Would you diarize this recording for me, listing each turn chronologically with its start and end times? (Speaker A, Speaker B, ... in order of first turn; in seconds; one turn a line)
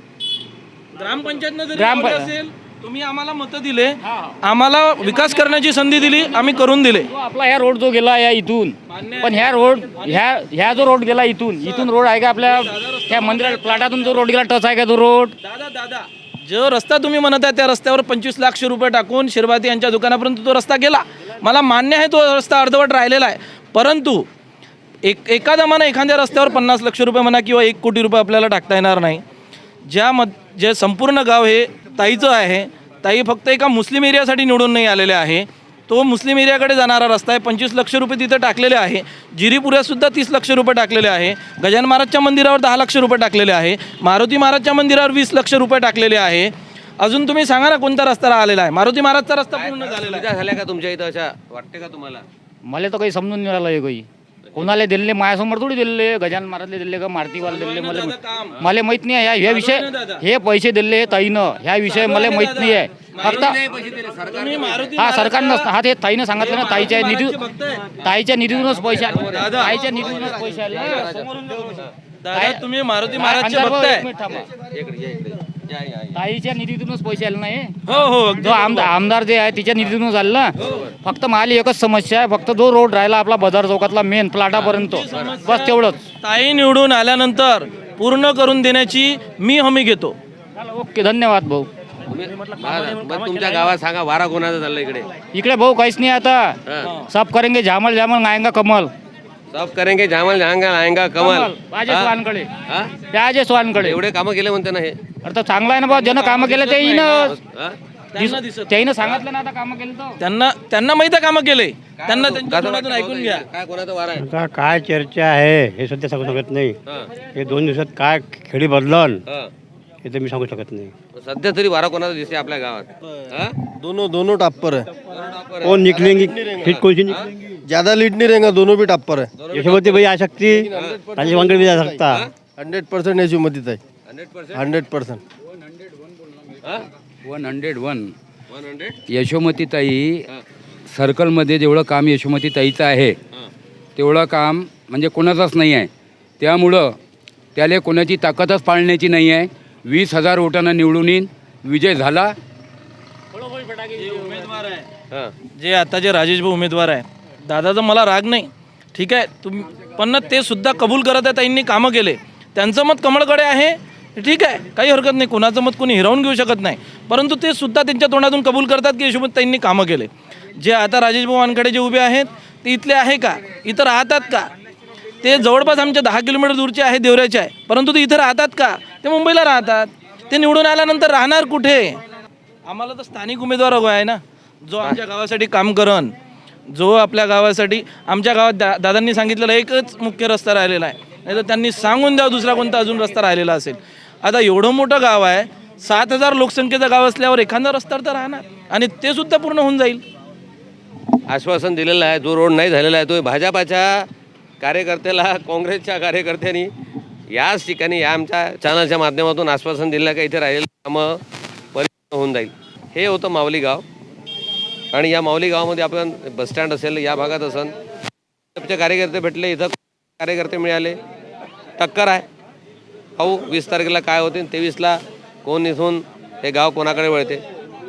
Speaker A: 0.9-7.1
Speaker B: 1.7-2.3
Speaker B: 4.0-4.3
Speaker B: 5.0-15.3
Speaker A: 8.9-10.2
Speaker A: 11.6-11.9
Speaker A: 12.4-14.2
Speaker A: 15.4-24.2
Speaker A: 25.0-29.2
Speaker A: 29.9-50.2
Speaker C: 49.5-52.2
Speaker B: 52.6-63.6
Speaker A: 57.4-58.6
Speaker A: 59.4-60.2
Speaker A: 61.8-63.5
Speaker C: 63.2-65.0
Speaker A: 64.3-65.7
Speaker B: 64.9-67.3
Speaker A: 66.4-67.9
Speaker B: 68.0-71.1
Speaker A: 68.8-69.8
Speaker C: 69.2-71.3
Speaker A: 70.7-74.1
Speaker B: 72.3-74.5
Speaker C: 74.5-76.2
Speaker B: 76.1-77.8
Speaker A: 77.8-78.9
Speaker B: 78.4-86.0
Speaker C: 84.5-85.4
Speaker A: 84.8-90.2
Speaker B: 90.5-91.7
Speaker C: 92.1-95.1
Speaker B: 92.5-93.4
Speaker A: 93.2-93.7
Speaker B: 95.3-98.9
Speaker A: 96.8-97.1
Speaker C: 99.5-102.1
Speaker B: 101.2-102.5
Speaker C: 102.7-103.0
Speaker B: 103.0-104.0
Speaker C: 103.8-105.0
Speaker B: 105.2-107.4
Speaker A: 105.9-107.3
Speaker C: 107.3-107.8
Speaker A: 108.1-108.9
Speaker B: 108.2-110.2
Speaker A: 110.2-113.4
Speaker C: 112.0-114.3
Speaker D: 114.1-119.2
Speaker D: 120.0-120.9
Speaker C: 121.1-123.6
Speaker E: 123.8-124.9
Speaker C: 125.1-127.3
Speaker D: 125.6-127.3
Speaker E: 126.3-126.7
Speaker E: 127.6-129.3
Speaker C: 129.3-130.1
Speaker D: 129.5-132.3
Speaker E: 130.6-133.8
Speaker C: 130.7-131.3
Speaker C: 132.1-132.3
Speaker C: 134.1-134.7
Speaker E: 134.5-135.2
Speaker F: 137.2-138.1
Speaker C: 138.5-139.0
Speaker F: 139.1-140.3
Speaker F: 140.9-143.2
Speaker F: 143.9-147.0
Speaker F: 147.5-152.3
Speaker B: 153.3-154.4
Speaker A: 153.9-154.8
Speaker A: 155.5-174.5
Speaker A: 175.2-182.0
Speaker A: 182.7-186.1
Speaker A: 186.7-200.0
Speaker C: 201.3-204.1
Speaker C: 204.6-206.7
Speaker C: 207.3-211.2
Speaker C: 211.7-213.8
Speaker C: 214.9-217.7
Speaker C: 218.6-221.0
Speaker C: 221.8-222.2
Speaker C: 223.2-227.4